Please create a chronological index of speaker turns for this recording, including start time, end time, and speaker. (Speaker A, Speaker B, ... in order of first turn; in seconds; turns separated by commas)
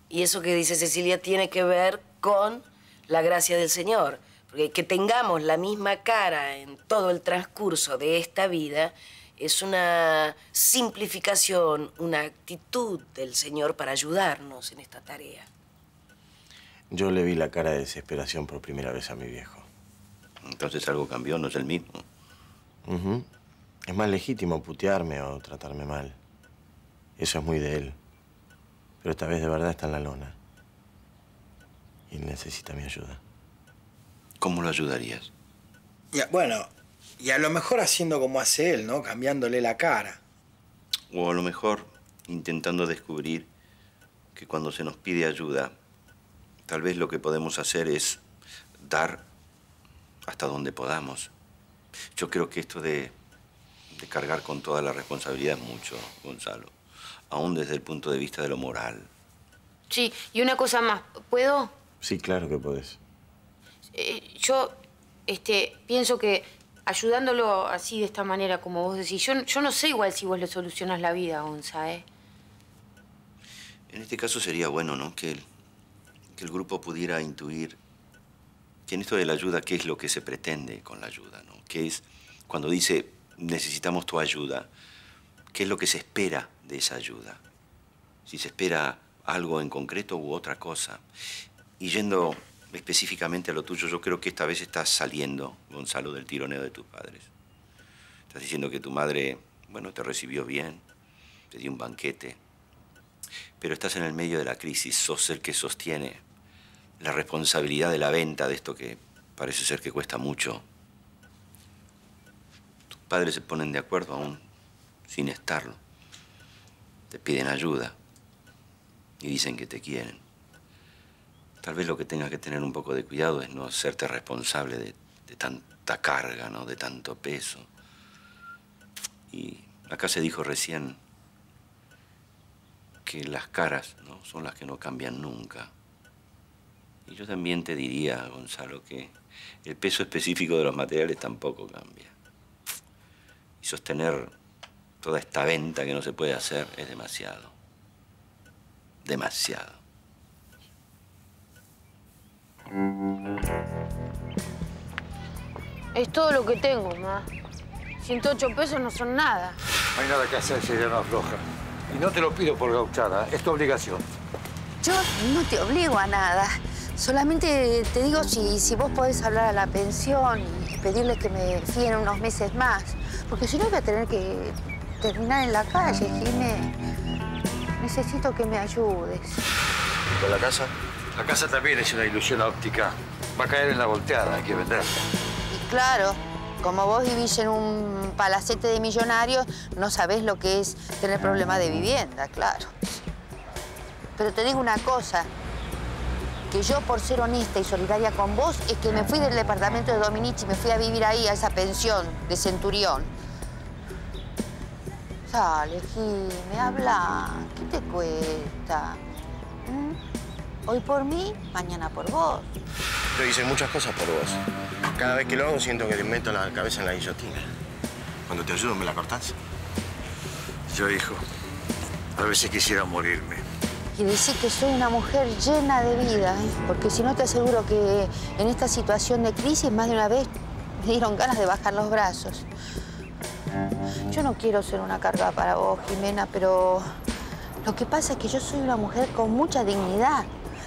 Speaker A: 0.1-15.5, Speaker B: 16.9-19.7, Speaker C: 20.4-22.1, Speaker B: 22.9-23.2, Speaker B: 23.9-26.2, Speaker B: 27.2-28.0, Speaker B: 29.0-30.4, Speaker B: 32.1-33.2, Speaker C: 34.4-35.3, Speaker D: 36.1-36.7, Speaker D: 37.2-40.2, Speaker C: 41.1-43.5, Speaker C: 44.4-45.7, Speaker C: 46.7-48.2, Speaker C: 48.8-49.2, Speaker C: 50.2-51.3, Speaker C: 52.1-53.1, Speaker C: 53.9-56.7, Speaker C: 57.3-59.1, Speaker E: 59.9-61.7, Speaker B: 62.0-63.0, Speaker E: 63.9-72.0, Speaker C: 73.9-75.5, Speaker C: 76.4-77.8, Speaker C: 78.9-84.7, Speaker C: 85.5-87.4, Speaker C: 88.3-91.0, Speaker C: 91.8-97.3, Speaker C: 98.3-100.8, Speaker C: 101.5-102.4, Speaker C: 103.6-106.2, Speaker C: 107.0-110.6, Speaker C: 112.9-114.4, Speaker C: 115.1-115.8, Speaker C: 117.1-118.0, Speaker C: 119.2-120.2, Speaker C: 121.6-127.7, Speaker C: 129.3-131.0, Speaker C: 133.1-135.7, Speaker C: 137.1-142.1, Speaker C: 143.6-144.3, Speaker C: 145.0-147.5, Speaker C: 149.0-149.8, Speaker E: 155.9-157.3, Speaker E: 158.0-159.6, Speaker F: 160.0-164.0, Speaker G: 164.8-176.8, Speaker G: 177.8-179.5, Speaker B: 180.2-180.7, Speaker F: 181.1-185.0, Speaker G: 185.5-192.9, Speaker G: 194.2-195.3, Speaker G: 196.5-203.1, Speaker G: 205.3-209.0, Speaker G: 209.7-210.0, Speaker G: 210.7-212.5, Speaker B: 213.1-214.4, Speaker B: 215.0-217.5, Speaker B: 218.3-219.4, Speaker F: 220.7-221.2, Speaker F: 222.2-223.4, Speaker G: 223.9-232.5, Speaker G: 234.1-236.9, Speaker G: 237.6-240.3